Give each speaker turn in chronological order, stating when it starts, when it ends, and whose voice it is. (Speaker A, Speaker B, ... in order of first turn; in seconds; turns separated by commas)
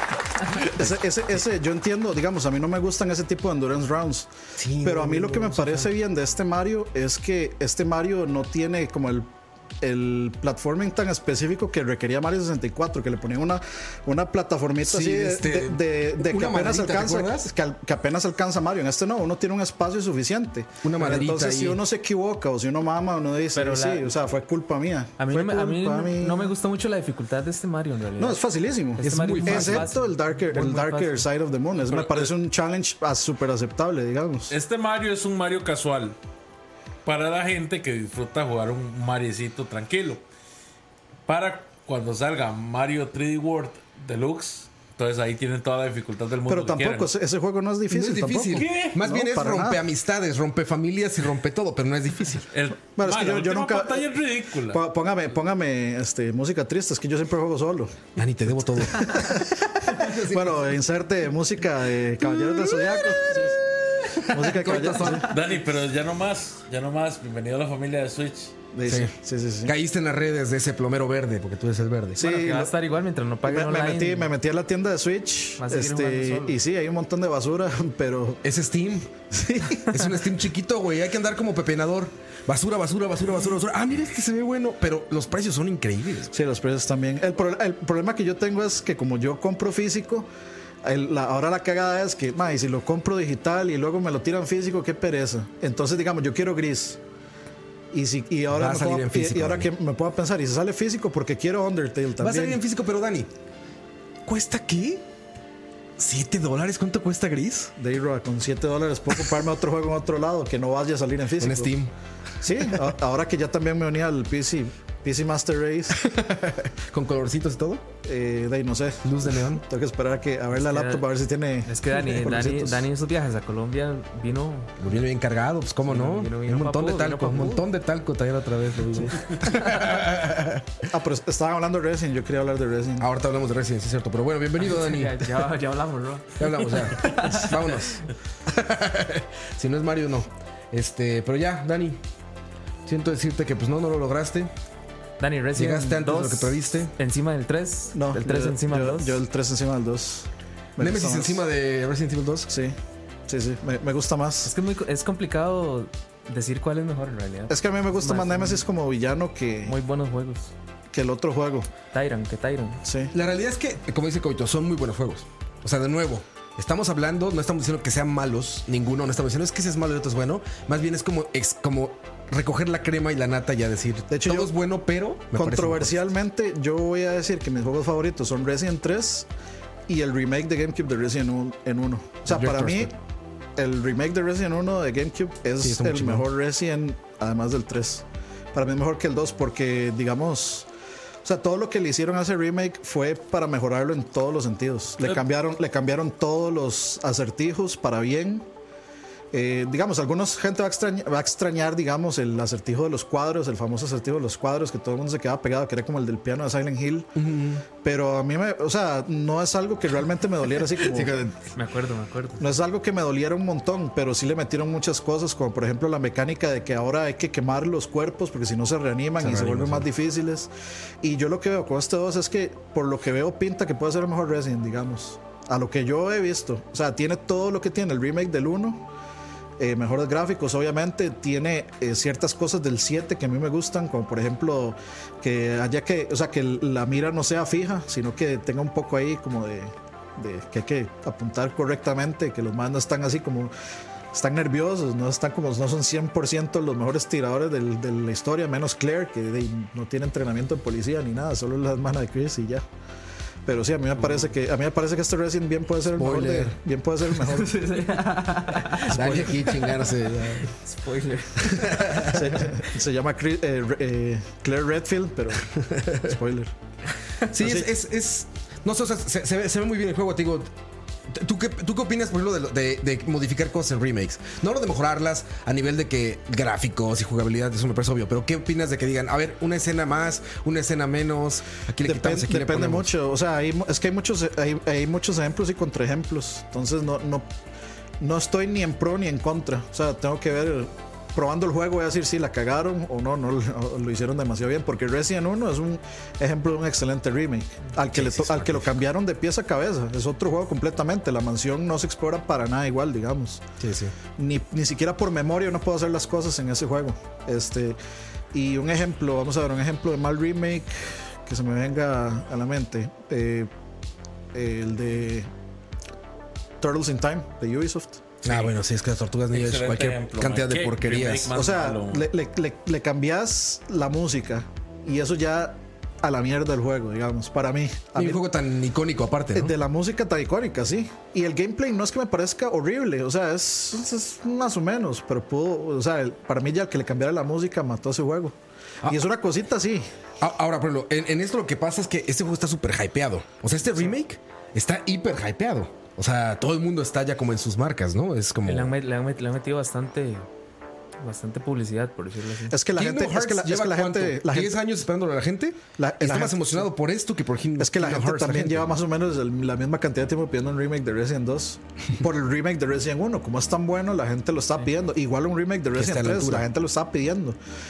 Speaker A: 0.4-0.9, Speaker B: 0.5-4.3, Speaker A: 4.6-5.8, Speaker B: 4.8-9.3, Speaker B: 9.8-26.5, Speaker A: 14.8-17.5, Speaker A: 20.8-21.8, Speaker C: 23.5-24.1, Speaker C: 25.2-28.4, Speaker B: 28.2-34.5, Speaker C: 29.0-31.3, Speaker A: 29.0-29.9, Speaker D: 31.9-32.3, Speaker D: 34.5-36.2, Speaker D: 37.0-40.2, Speaker D: 41.3-47.1, Speaker B: 46.5-49.8, Speaker A: 47.9-52.5, Speaker D: 48.5-49.0, Speaker D: 52.5-54.8, Speaker B: 53.0-54.1, Speaker B: 54.7-58.1, Speaker A: 58.1-60.8, Speaker B: 58.8-63.6, Speaker A: 62.2-65.3, Speaker B: 64.3-65.3, Speaker D: 65.2-68.5, Speaker B: 68.7-69.7, Speaker A: 68.9-69.1, Speaker A: 69.6-72.3, Speaker B: 72.2-72.7, Speaker C: 72.2-74.3, Speaker B: 73.4-78.4, Speaker C: 75.6-76.6, Speaker A: 78.4-86.3, Speaker B: 79.6-79.9, Speaker B: 86.3-90.3, Speaker B: 90.8-97.0, Speaker B: 97.9-102.6, Speaker A: 98.5-99.7, Speaker A: 102.2-103.3, Speaker A: 104.2-105.0, Speaker A: 106.0-107.7, Speaker B: 107.8-111.7, Speaker A: 111.4-111.9, Speaker B: 112.4-116.0, Speaker A: 115.9-117.8, Speaker B: 118.0-122.8, Speaker A: 119.0-119.6, Speaker C: 120.5-121.0, Speaker C: 121.7-124.7, Speaker A: 124.8-130.8, Speaker C: 125.8-127.7, Speaker B: 130.9-133.1, Speaker A: 133.0-135.4, Speaker C: 134.6-137.8, Speaker A: 136.4-142.0, Speaker A: 142.9-144.5, Speaker C: 145.2-149.2, Speaker A: 145.5-146.9, Speaker B: 147.9-151.4, Speaker A: 150.8-152.5, Speaker B: 152.5-152.8, Speaker B: 153.3-154.5, Speaker C: 154.4-158.6, Speaker B: 157.5-159.7, Speaker C: 159.7-160.5, Speaker B: 160.9-161.7, Speaker C: 161.9-162.8, Speaker B: 162.8-163.1, Speaker A: 163.1-176.0, Speaker B: 174.1-174.5, Speaker B: 175.3-179.3, Speaker B: 179.9-182.9, Speaker A: 182.3-182.9, Speaker B: 183.6-190.7, Speaker A: 185.6-186.3, Speaker B: 191.2-198.4, Speaker B: 199.3-207.1, Speaker A: 207.1-207.6, Speaker B: 207.8-211.1, Speaker A: 210.8-211.4, Speaker C: 211.5-212.4, Speaker B: 212.4-220.5, Speaker A: 219.2-219.9, Speaker B: 221.0-228.8, Speaker B: 229.6-243.5, Speaker B: 244.1-252.6, Speaker B: 253.4-257.6, Speaker C: 254.0-254.3, Speaker A: 255.9-256.6, Speaker C: 257.3-259.9, Speaker A: 258.8-260.5, Speaker B: 258.9-259.4, Speaker C: 260.4-262.2, Speaker A: 261.4-262.6, Speaker B: 262.0-266.5, Speaker A: 265.6-266.0, Speaker A: 267.3-270.5, Speaker B: 267.3-267.7, Speaker A: 271.1-282.9, Speaker B: 281.8-287.3, Speaker B: 288.0-303.4, Speaker A: 297.9-298.8, Speaker A: 303.6-303.9, Speaker B: 304.2-307.8, Speaker B: 308.3-313.5, Speaker B: 314.3-315.3, Speaker B: 316.6-318.0, Speaker A: 318.2-321.4, Speaker D: 318.2-318.5, Speaker D: 319.3-322.1, Speaker B: 321.3-328.2, Speaker A: 327.9-329.5, Speaker B: 329.4-339.9, Speaker A: 340.2-348.7, Speaker C: 348.4-350.3, Speaker C: 351.0-352.5, Speaker B: 352.5-354.6, Speaker A: 352.7-358.8, Speaker B: 355.8-356.6, Speaker B: 357.6-367.4, Speaker A: 365.7-366.4